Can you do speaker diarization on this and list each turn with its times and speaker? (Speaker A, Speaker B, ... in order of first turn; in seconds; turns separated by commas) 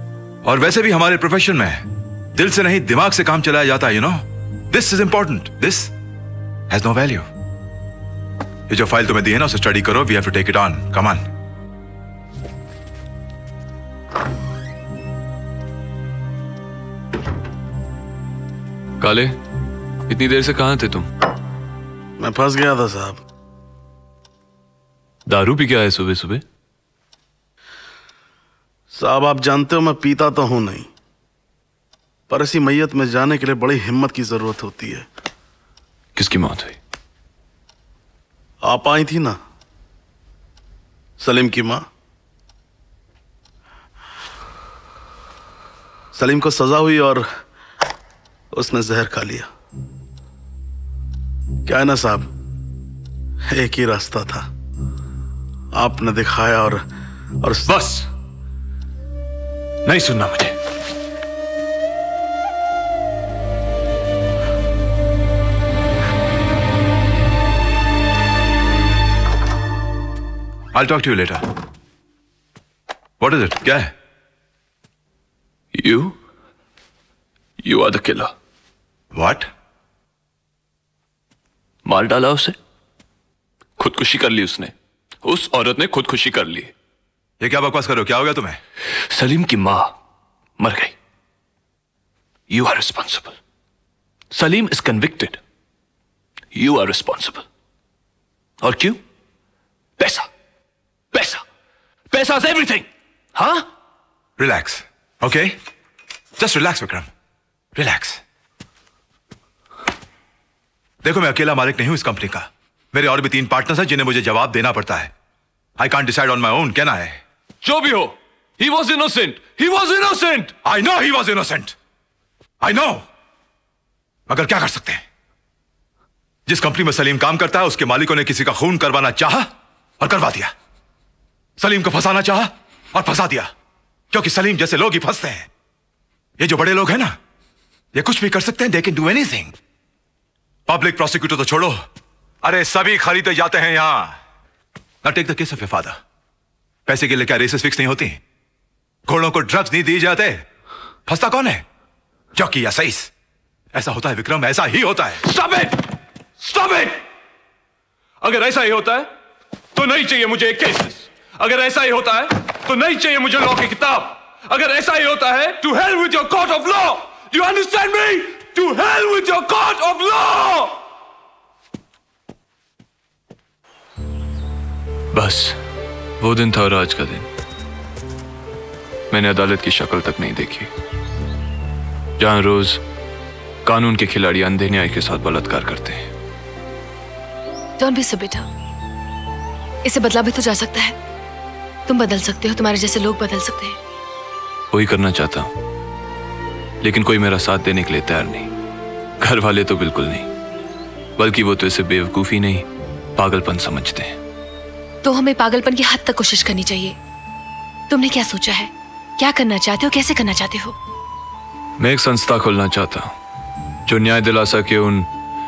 Speaker A: 0.4-5.9, Speaker A: 6.7-7.2, Speaker A: 8.7-11.2, Speaker B: 19.0-19.4, Speaker B: 20.1-21.1, Speaker C: 22.2-23.2, Speaker B: 25.3-26.4, Speaker C: 28.9-30.9, Speaker C: 32.3-35.0, Speaker B: 36.1-36.8, Speaker C: 38.6-39.4, Speaker C: 41.2-41.8, Speaker C: 46.1-47.3, Speaker C: 48.5-49.5, Speaker C: 51.6-52.3, Speaker C: 53.5-54.5, Speaker C: 55.8-56.8, Speaker C: 57.4-57.7, Speaker B: 57.7-58.1, Speaker B: 59.9-60.5, Speaker A: 70.7-71.5, Speaker A: 73.2-73.9, Speaker B: 75.7-76.2, Speaker B: 77.6-78.3, Speaker A: 79.1-79.5, Speaker B: 81.8-82.5, Speaker B: 83.8-84.7, Speaker B: 85.2-86.7, Speaker A: 87.4-88.6, Speaker B: 89.0-90.0, Speaker B: 90.6-90.9, Speaker B: 92.5-93.3, Speaker B: 94.3-95.4, Speaker B: 96.5-97.4, Speaker B: 98.6-99.0, Speaker B: 100.0-100.3, Speaker B: 101.1-101.4, Speaker B: 102.1-103.7, Speaker A: 104.4-105.5, Speaker A: 106.4-107.1, Speaker A: 107.7-108.2, Speaker A: 111.0-115.1, Speaker A: 115.8-117.2, Speaker B: 117.6-120.5, Speaker A: 120.6-121.7, Speaker A: 122.6-123.0, Speaker A: 124.3-125.0, Speaker A: 126.5-130.5, Speaker A: 131.6-133.5, Speaker A: 134.1-135.5, Speaker A: 136.4-137.2, Speaker A: 137.9-139.5, Speaker A: 140.7-141.8, Speaker A: 142.4-144.2, Speaker A: 145.0-146.0, Speaker A: 146.8-148.2, Speaker A: 149.1-150.4, Speaker A: 151.1-151.6, Speaker A: 152.3-153.1, Speaker A: 153.7-155.2, Speaker B: 155.2-155.8, Speaker B: 156.4-157.0, Speaker B: 158.2-159.1, Speaker B: 159.7-170.7, Speaker B: 175.1-175.6, Speaker B: 176.2-177.3, Speaker B: 179.1-180.7, Speaker B: 182.2-182.8, Speaker B: 183.6-186.1, Speaker D: 187.8-188.5, Speaker D: 189.8-190.9, Speaker D: 191.9-193.8, Speaker B: 194.7-195.5, Speaker B: 196.8-198.5, Speaker B: 199.2-200.3, Speaker B: 201.2-204.2, Speaker D: 205.0-206.9, Speaker D: 207.9-210.8, Speaker B: 211.8-213.2, Speaker B: 213.8-215.1